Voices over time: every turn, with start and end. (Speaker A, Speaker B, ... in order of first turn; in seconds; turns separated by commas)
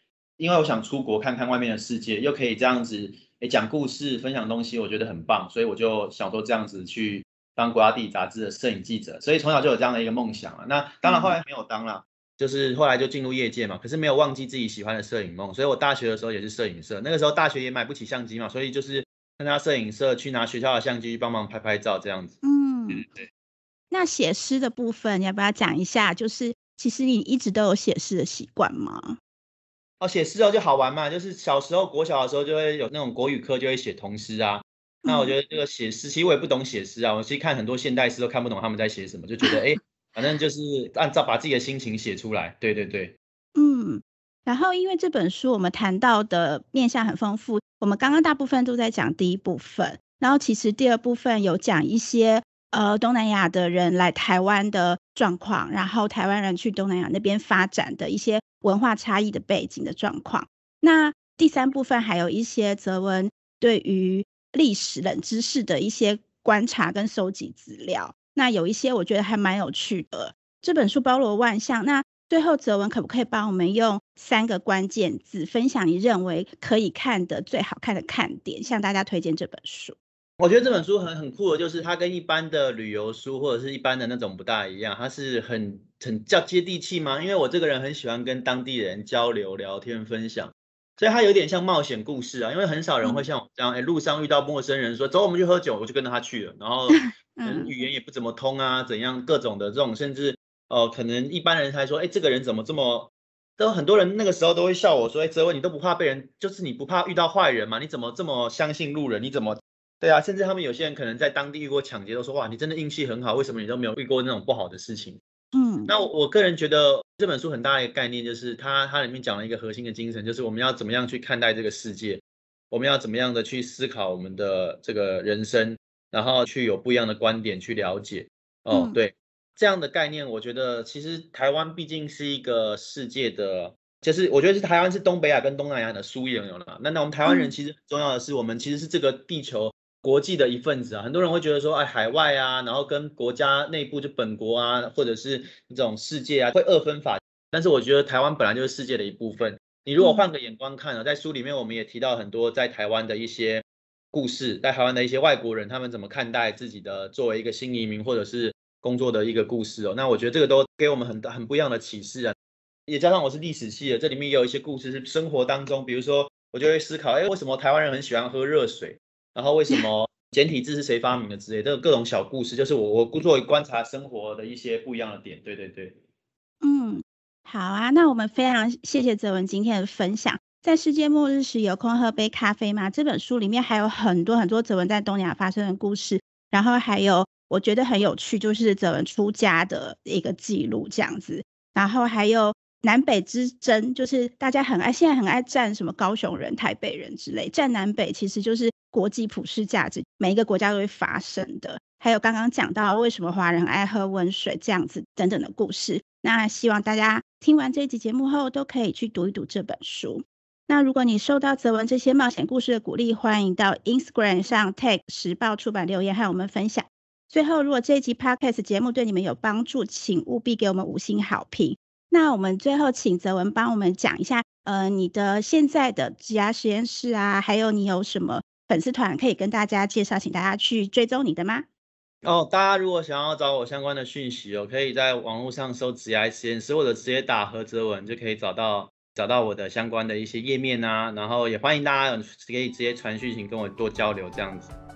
Speaker A: 0.4-22.4, Speaker B: 11.0-11.4, Speaker B: 22.4-23.1, Speaker A: 22.9-23.2, Speaker B: 23.9-29.2, Speaker A: 30.0-43.1, Speaker B: 35.0-35.4, Speaker B: 43.5-80.0, Speaker A: 80.4-115.2, Speaker B: 96.9-97.7, Speaker B: 115.5-115.9, Speaker A: 115.9-162.3, Speaker B: 128.7-129.0, Speaker B: 137.2-137.5, Speaker B: 150.0-150.3, Speaker A: 162.9-176.0, Speaker B: 176.6-231.7, Speaker A: 232.2-244.7